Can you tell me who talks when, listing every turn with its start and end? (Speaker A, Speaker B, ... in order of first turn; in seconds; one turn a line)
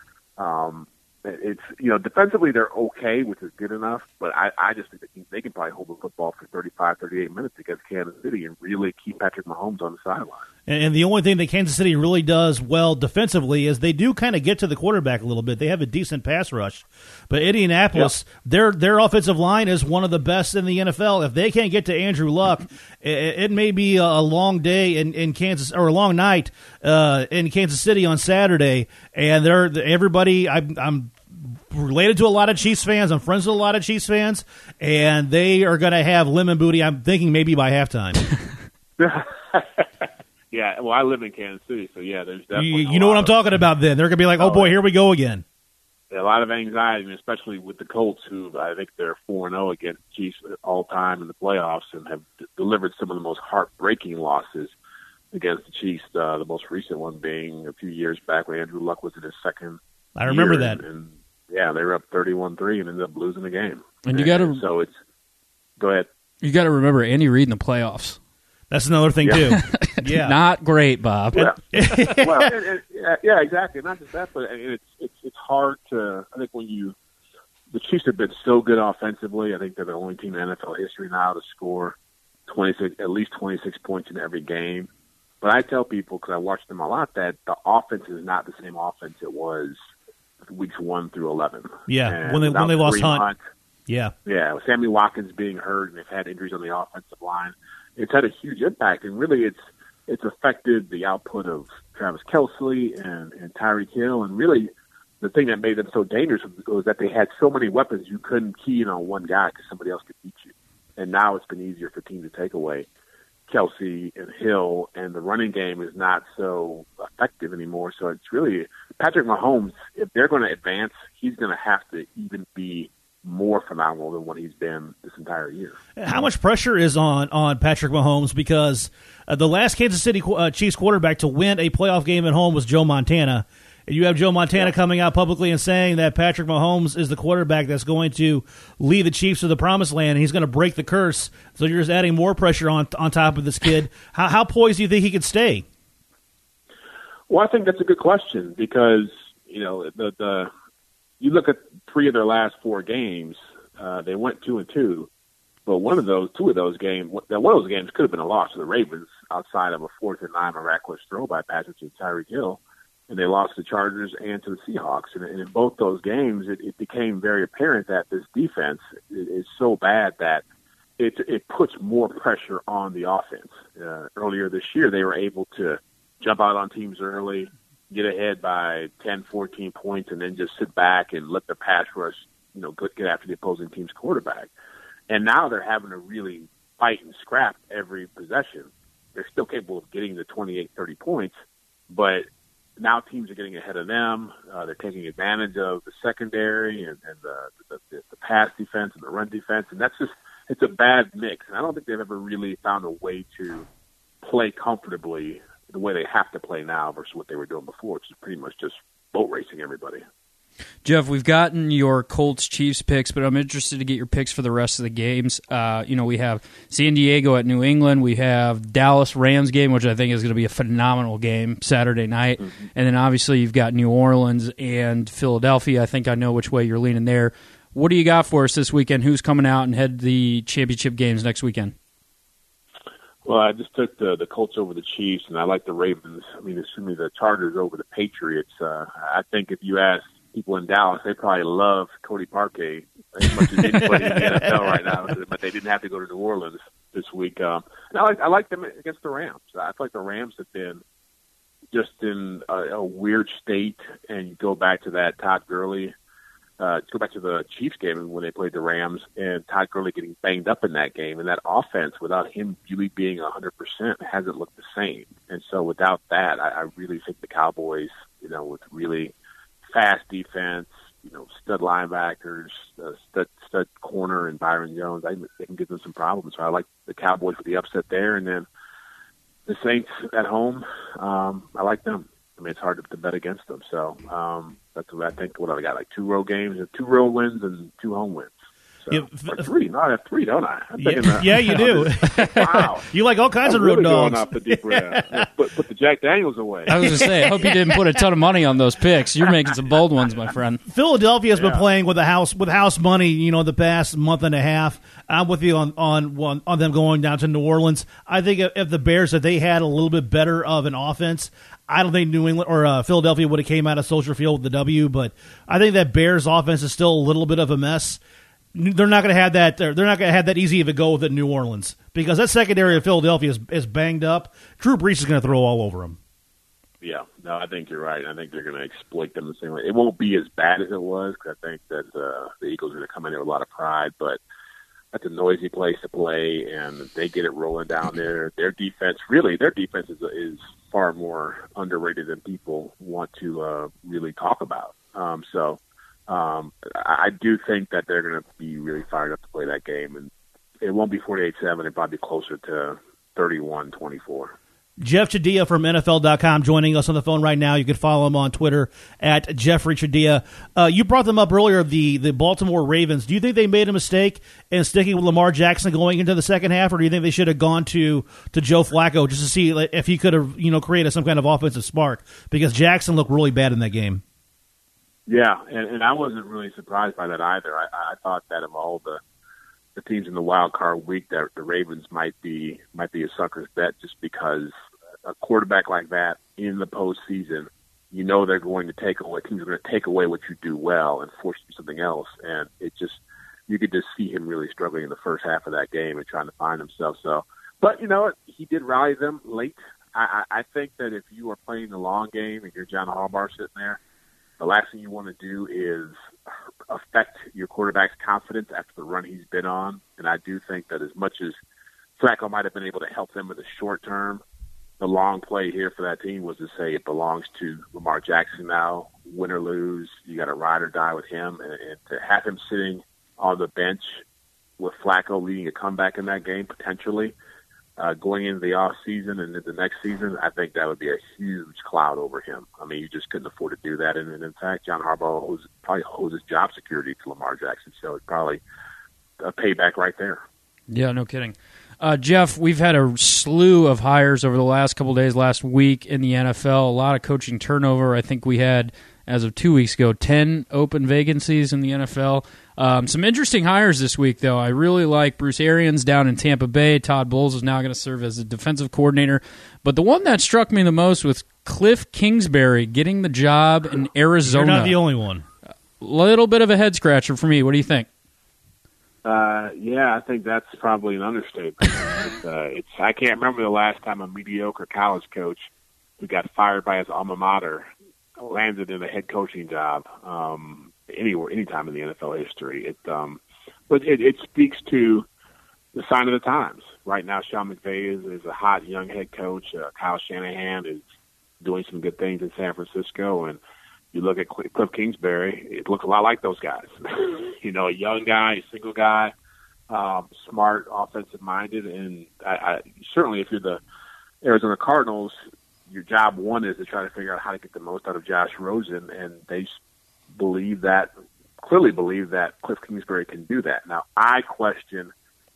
Speaker A: 0.4-10.4
Speaker B: 10.7-38.2
Speaker A: 39.0-43.3
Speaker B: 42.5-45.4
Speaker A: 44.4-44.7
Speaker A: 46.1-54.7
Speaker A: 55.3-64.9
Speaker B: 60.2-60.8
Speaker C: 64.0-64.6
Speaker A: 65.8-66.1
Speaker C: 66.4-68.2
Speaker B: 68.7-70.4
Speaker C: 69.4-71.5
Speaker B: 71.4-72.5
Speaker A: 72.2-77.0
Speaker A: 77.7-82.0
Speaker A: 82.5-84.9
Speaker A: 85.4-89.8
Speaker A: 90.5-93.4
Speaker B: 91.9-93.2
Speaker B: 93.9-94.1
Speaker A: 94.2-112.9
Speaker A: 113.5-125.8
Speaker B: 126.0-145.6
Speaker A: 147.3-150.5
Speaker A: 151.2-155.1
Speaker A: 155.7-170.4
Speaker A: 171.0-184.5
Speaker A: 185.1-191.3
Speaker A: 191.9-192.3
Speaker A: 192.8-203.7
Speaker A: 204.2-210.0
Speaker C: 210.8-231.7
Speaker A: 233.2-250.8
Speaker B: 243.6-244.9
Speaker A: 251.7-255.9
Speaker A: 256.6-269.1
Speaker A: 269.7-278.4
Speaker A: 279.4-292.9
Speaker B: 288.9-289.5
Speaker B: 290.8-295.3
Speaker A: 293.4-297.1
Speaker B: 296.7-297.9
Speaker C: 296.7-300.6
Speaker B: 300.7-318.0
Speaker B: 318.5-326.0
Speaker A: 326.8-334.2
Speaker A: 334.9-354.3
Speaker B: 354.8-374.0
Speaker A: 375.1-379.0
Speaker A: 379.8-384.5
Speaker A: 385.0-403.8
Speaker A: 404.4-405.9
Speaker A: 406.7-411.4
Speaker A: 412.0-414.2
Speaker A: 414.8-424.0
Speaker A: 424.6-427.1
Speaker A: 427.8-438.4
Speaker A: 439.2-440.2
Speaker C: 440.7-464.8
Speaker B: 464.2-465.2
Speaker C: 465.8-467.9
Speaker A: 469.0-475.4
Speaker A: 476.0-477.7
Speaker A: 478.2-485.1
Speaker A: 485.7-490.8
Speaker A: 491.4-493.4
Speaker A: 493.9-499.1
Speaker A: 499.7-503.6
Speaker A: 504.2-505.2
Speaker A: 505.7-509.5
Speaker A: 510.1-514.9